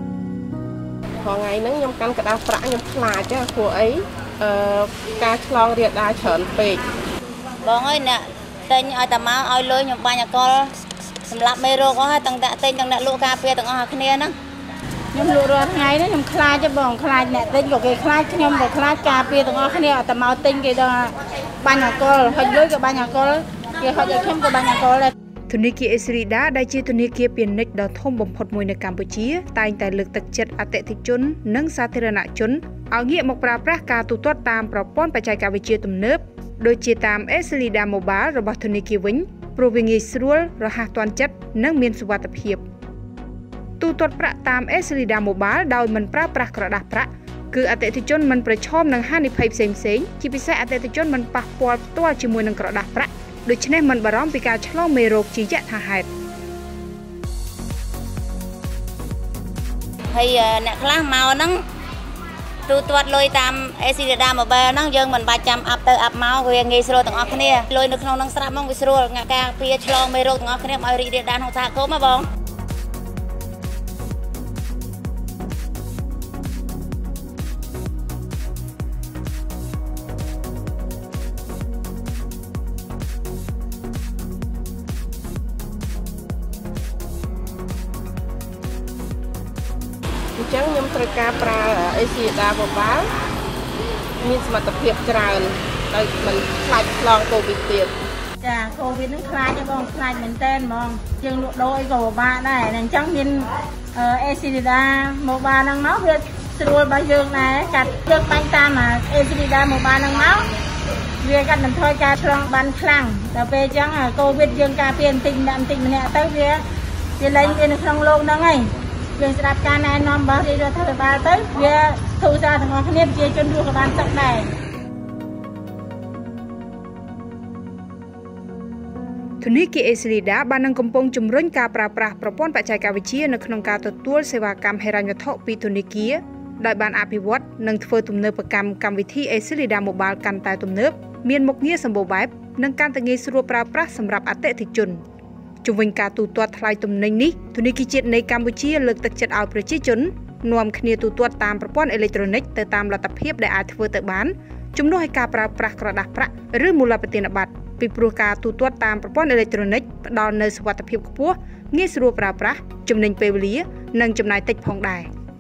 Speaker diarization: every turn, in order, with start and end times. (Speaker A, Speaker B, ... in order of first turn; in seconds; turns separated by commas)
Speaker A: 1.2-6.8, Speaker B: 7.6-10.7, Speaker B: 11.3-14.3, Speaker C: 15.1-25.1, Speaker D: 25.5-42.6, Speaker D: 43.8-56.1, Speaker B: 60.1-61.6, Speaker B: 62.7-72.3, Speaker A: 90.4-93.1, Speaker A: 94.2-98.0, Speaker C: 98.4-110.5, Speaker C: 111.2-116.6, Speaker C: 117.2-124.5, Speaker D: 129.4-145.0, Speaker D: 145.6-165.1